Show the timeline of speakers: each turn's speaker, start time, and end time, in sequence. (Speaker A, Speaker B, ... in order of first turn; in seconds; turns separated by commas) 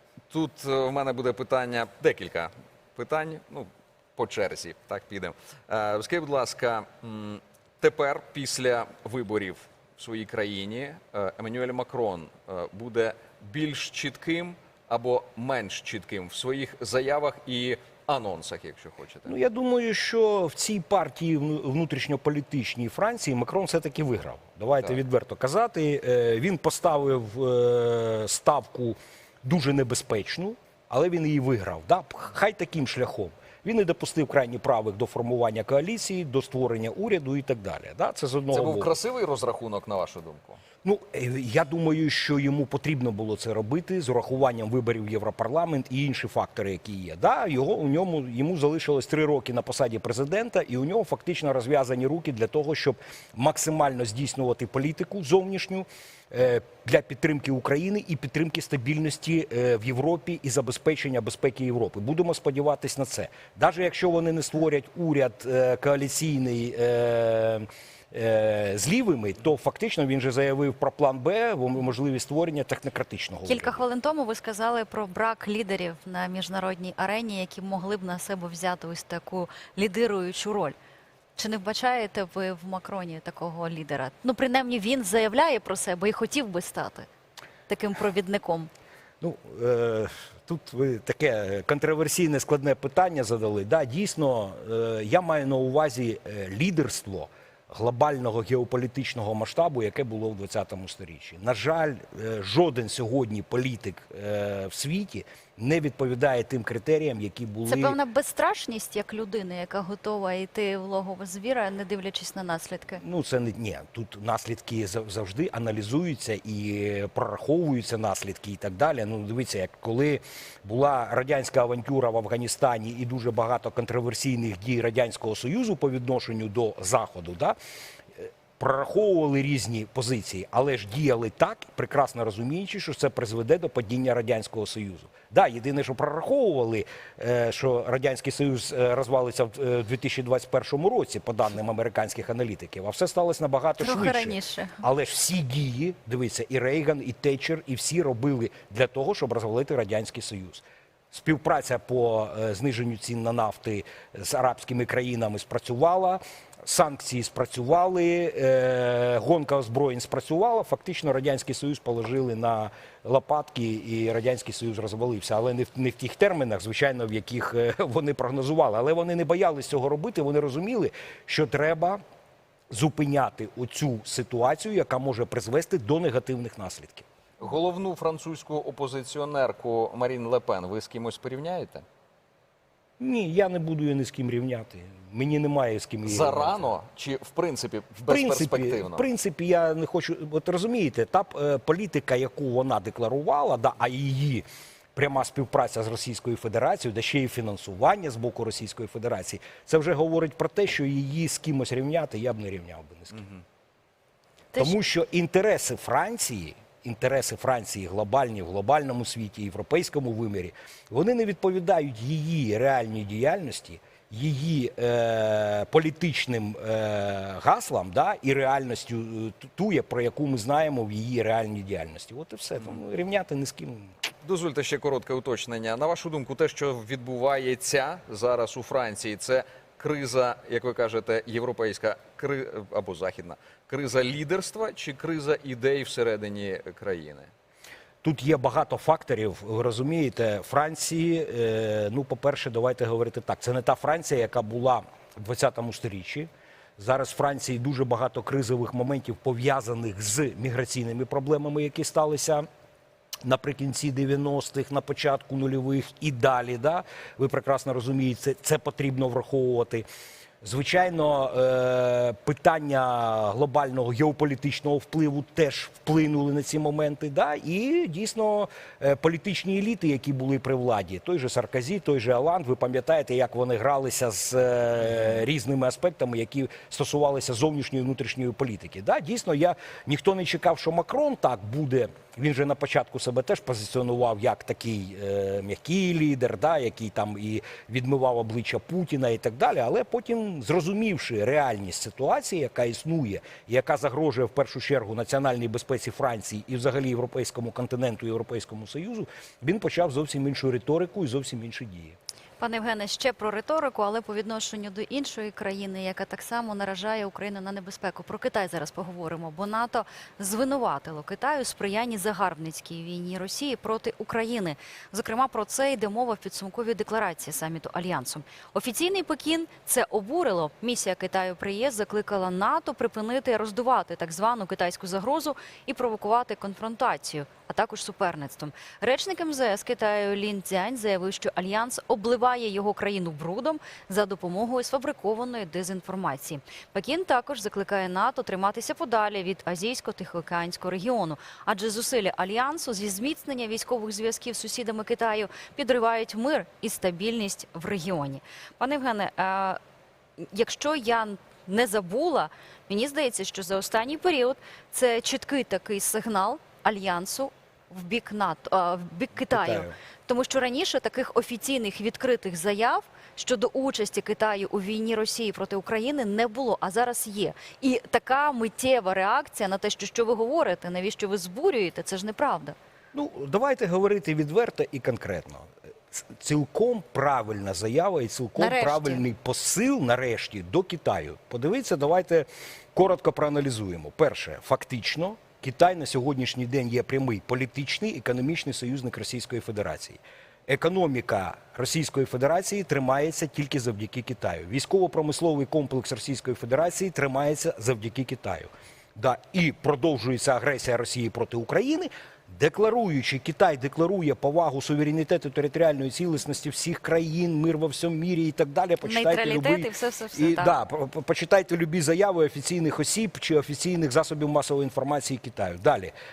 Speaker A: 0.3-19.3, Speaker B: 19.3-38.9, Speaker A: 38.5-40.6, Speaker B: 40.8-73.8, Speaker C: 73.5-80.8, Speaker C: 81.4-87.1, Speaker C: 87.7-88.7, Speaker B: 89.2-108.0, Speaker C: 107.7-113.0, Speaker B: 113.0-127.5, Speaker B: 128.2-172.0, Speaker C: 143.8-144.8, Speaker B: 172.7-177.1, Speaker A: 177.4-181.8, Speaker B: 183.0-186.7, Speaker A: 186.0-189.1, Speaker B: 188.1-203.3, Speaker B: 204.6-223.9, Speaker A: 224.2-237.3, Speaker B: 238.0-252.4, Speaker B: 253.2-259.8, Speaker B: 260.4-302.0, Speaker C: 302.4-349.6, Speaker C: 350.2-372.6, Speaker B: 359.3-359.7, Speaker B: 372.9-415.9, Speaker C: 378.4-379.1, Speaker C: 408.8-410.6